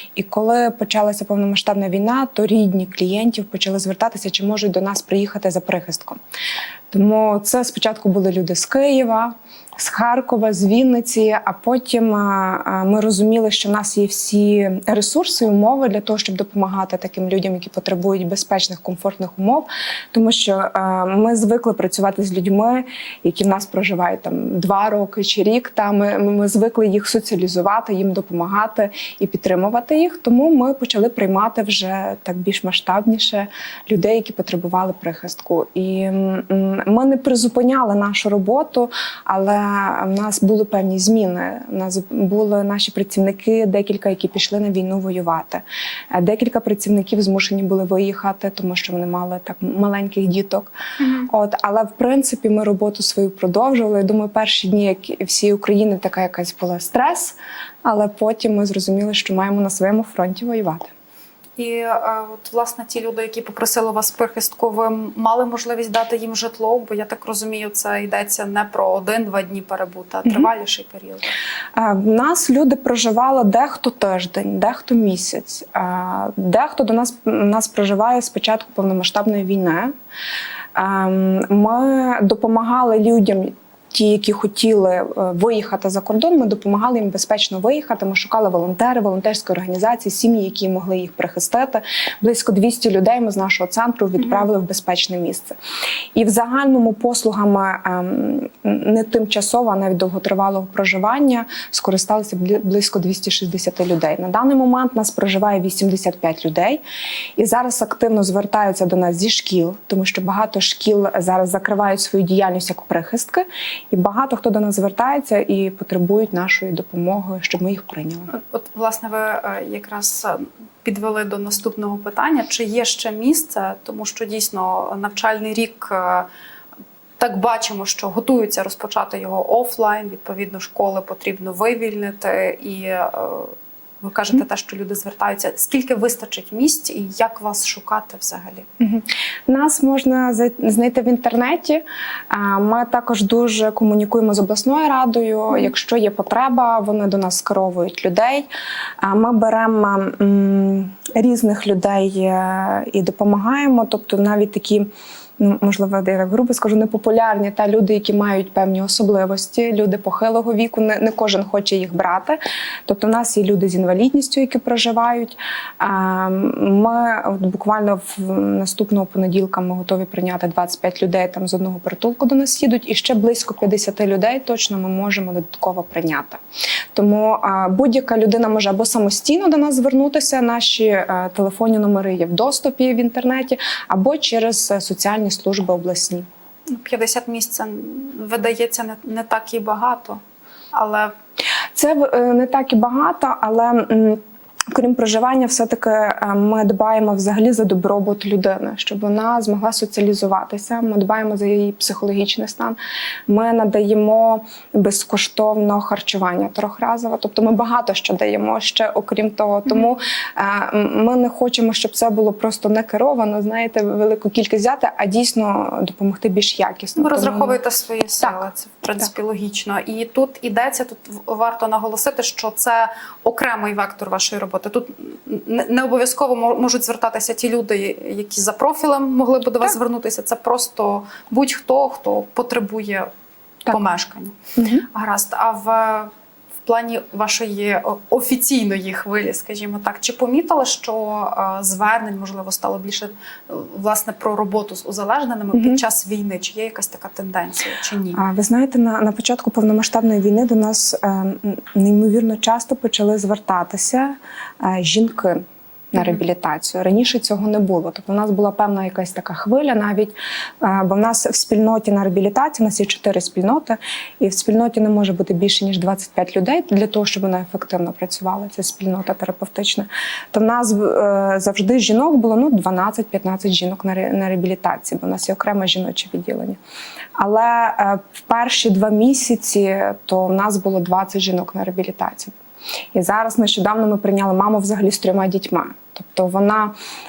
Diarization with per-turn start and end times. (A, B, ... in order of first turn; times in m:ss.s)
0:00.1-0:06.2 A
0:06.9-0:50.7 A
0:51.0-0:51.3 B
0:51.3-1:00.9 A
1:01.6-1:11.3 B
1:11.7-1:19.9 A
1:20.7-1:35.6 A
1:36.1-1:46.8 A
1:47.4-1:58.3 A
1:58.3-2:06.3 B
2:07.2-2:18.6 B
2:18.8-2:28.5 A
2:29.0-2:34.9 A
2:35.4-2:56.4 A
2:56.9-3:06.2 A
3:06.7-3:10.2 B
3:10.7-3:11.1 B
3:11.7-3:22.8 A
3:23.3-3:37.6 A
3:37.0-3:53.1 B
3:53.6-3:54.4 B
3:54.6-3:54.8 A
3:54.9-3:56.1 B
3:56.6-4:08.2 B
4:05.5-4:05.8 A
4:08.2-4:36.6 A
4:37.2-4:42.3 A
4:42.9-4:46.7 A